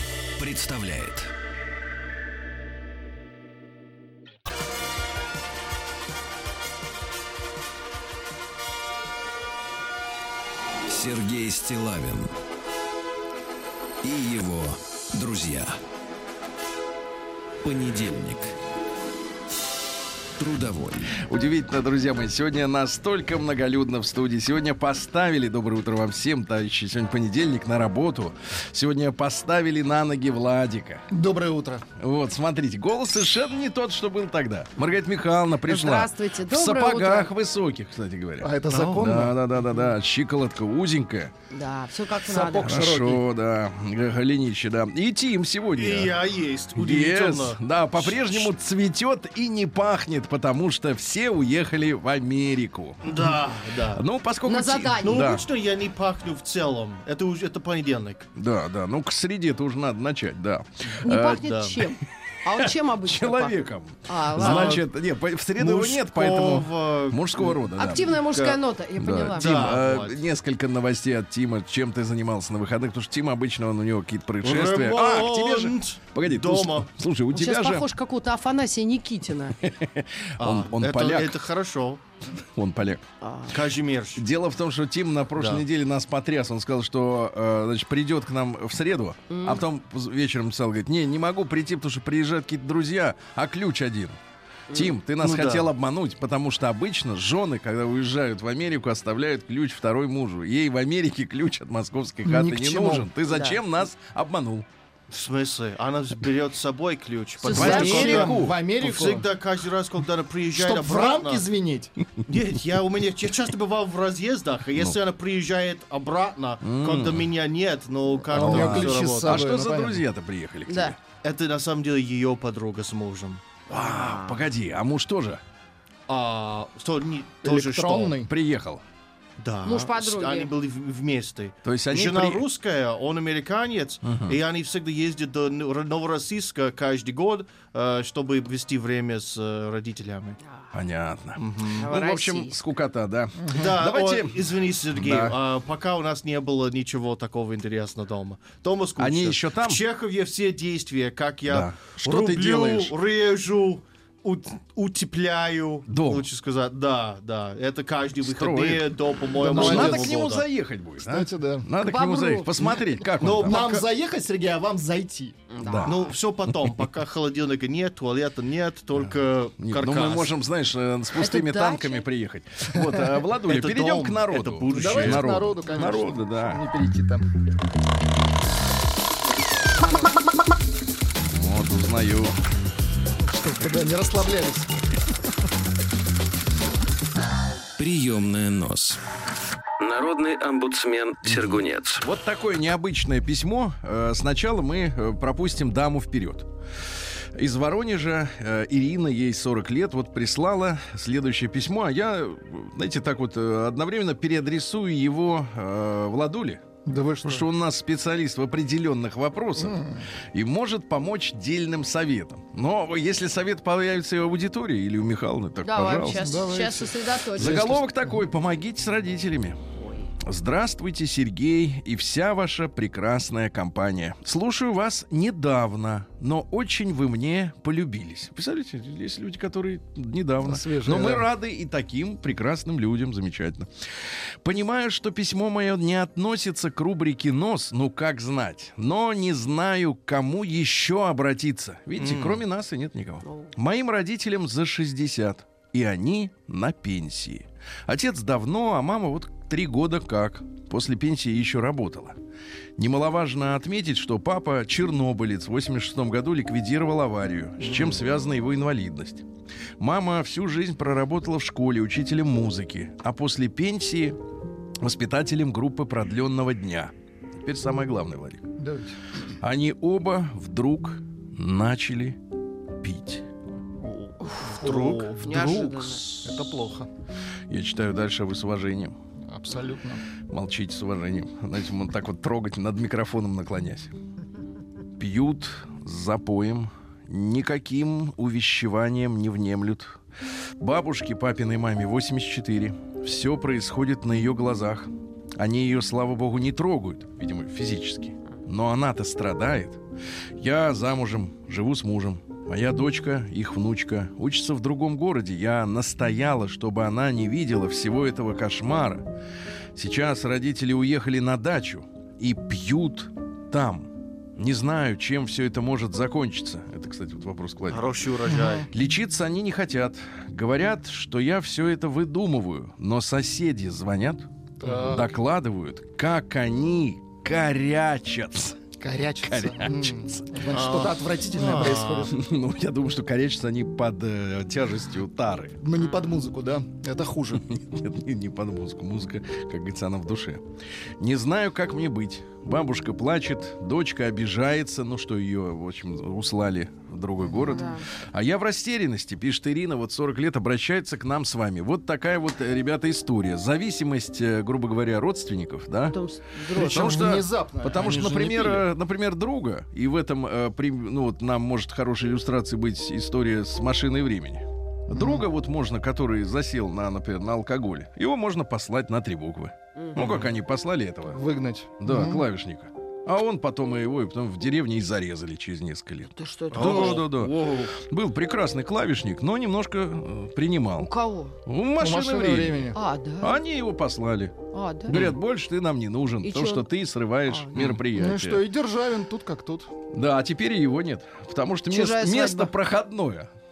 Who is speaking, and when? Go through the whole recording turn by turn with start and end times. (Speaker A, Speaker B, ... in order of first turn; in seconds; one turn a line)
Speaker A: 0.4-1.3
Speaker A: 10.9-12.3
Speaker A: 14.0-15.8
Speaker A: 17.6-18.6
Speaker A: 20.4-21.2
Speaker B: 21.2-31.0
Speaker C: 31.1-31.8
Speaker B: 32.0-41.3
Speaker D: 35.7-37.3
Speaker C: 38.4-39.4
Speaker E: 38.7-39.2
Speaker D: 41.5-42.8
Speaker C: 42.3-43.2
Speaker B: 42.6-46.1
Speaker E: 45.8-48.5
Speaker B: 46.8-53.3
Speaker E: 53.0-54.0
Speaker B: 53.9-55.4
Speaker D: 54.5-55.3
Speaker E: 55.0-58.3
Speaker B: 58.4-61.6
Speaker D: 61.0-64.8
Speaker E: 61.4-61.8
Speaker B: 62.6-68.5
Speaker E: 64.4-64.8
Speaker E: 65.6-67.6
Speaker D: 67.8-69.8
Speaker B: 69.0-77.9
Speaker E: 69.3-70.2
Speaker E: 74.4-76.9
Speaker D: 77.3-79.5
Speaker B: 79.6-81.4
Speaker E: 80.4-82.0
Speaker B: 82.6-83.1
Speaker D: 83.2-83.6
Speaker E: 83.5-84.2
Speaker B: 84.2-94.2
Speaker E: 85.3-85.6
Speaker D: 89.3-89.6
Speaker B: 94.7-104.7
Speaker E: 95.2-95.7
Speaker C: 102.3-103.1
Speaker D: 103.3-103.6
Speaker E: 105.1-111.4
Speaker D: 107.5-108.3
Speaker B: 107.5-108.6
Speaker C: 107.5-109.3
Speaker C: 110.6-111.9
Speaker E: 112.3-119.4
Speaker B: 116.6-117.3
Speaker C: 118.3-120.0
Speaker B: 118.3-121.0
Speaker D: 120.7-120.9
Speaker E: 121.2-123.4
Speaker B: 123.7-125.4
Speaker E: 126.1-128.2
Speaker C: 127.4-128.3
Speaker B: 128.3-128.8
Speaker E: 129.4-140.4
Speaker D: 129.6-130.5
Speaker B: 131.6-132.4
Speaker B: 134.0-134.4
Speaker B: 140.7-145.4
Speaker E: 141.4-141.9
Speaker D: 141.8-142.6
Speaker C: 143.4-143.7
Speaker E: 143.5-160.5
Speaker B: 149.0-149.8
Speaker B: 151.5-152.9
Speaker B: 155.9-156.3
Speaker B: 158.2-158.9
Speaker C: 159.4-160.2
Speaker B: 159.5-163.6
Speaker C: 161.1-161.7
Speaker D: 161.8-162.5
Speaker E: 163.2-163.8
Speaker C: 163.5-165.4
Speaker D: 165.5-166.0
Speaker B: 165.6-166.8
Speaker E: 165.9-170.3
Speaker B: 169.0-176.6
Speaker D: 171.2-172.0
Speaker E: 173.5-175.2
Speaker C: 174.7-177.3
Speaker B: 181.3-182.3
Speaker C: 183.2-184.7
Speaker A: 187.8-189.0
Speaker A: 189.8-192.0
Speaker B: 191.2-196.5
Speaker B: 197.4-206.6
Speaker C: 206.8-207.4
Speaker B: 207.2-209.8
Speaker C: 209.6-210.0
Speaker B: 210.3-216.2
Speaker D: 215.6-217.9
Speaker C: 216.2-216.9
Speaker B: 217.4-219.6
Speaker D: 219.8-220.1
Speaker B: 220.2-233.7
Speaker C: 230.4-231.3
Speaker B: 234.4-252.2
Speaker E: 242.0-242.4
Speaker D: 243.2-243.5
Speaker B: 252.8-259.2
Speaker B: 259.8-264.2
Speaker B: 264.8-266.9
Speaker B: 267.4-268.4
Speaker C: 268.6-268.9
Speaker B: 269.4-272.2
Speaker B: 272.8-273.2
Speaker C: 273.8-276.9
Speaker E: 274.6-275.6
Speaker D: 275.2-276.1
Speaker B: 275.3-276.2
Speaker B: 277.5-279.0
Speaker C: 279.3-280.0
Speaker B: 280.3-283.9
Speaker B: 285.0-290.0
Speaker B: 290.6-299.8
Speaker B: 300.4-309.1
Speaker B: 309.8-317.9
Speaker E: 317.7-318.7
Speaker C: 318.3-318.7
Speaker B: 318.7-328.7
Speaker C: 324.6-325.1
Speaker E: 324.7-325.0
Speaker C: 328.8-332.1
Speaker B: 329.2-330.3
Speaker E: 330.5-332.1
Speaker B: 332.1-335.6
Speaker C: 335.6-337.4
Speaker B: 337.3-340.4
Speaker B: 341.0-356.0
Speaker D: 347.3-347.8
Speaker D: 355.9-356.9
Speaker C: 356.5-358.7
Speaker B: 356.6-371.2
Speaker C: 364.9-365.2
Speaker E: 370.0-370.3
Speaker C: 371.1-372.2
Speaker B: 371.8-380.9
Speaker D: 376.1-377.0
Speaker E: 376.5-377.7
Speaker D: 380.8-381.4
Speaker B: 381.5-382.6
Speaker C: 381.8-382.8
Speaker D: 382.7-383.4
Speaker B: 383.2-384.3
Speaker D: 384.5-384.9
Speaker B: 384.9-388.4
Speaker D: 386.2-386.7
Speaker C: 387.9-389.7
Speaker B: 389.9-393.3
Speaker D: 391.7-392.5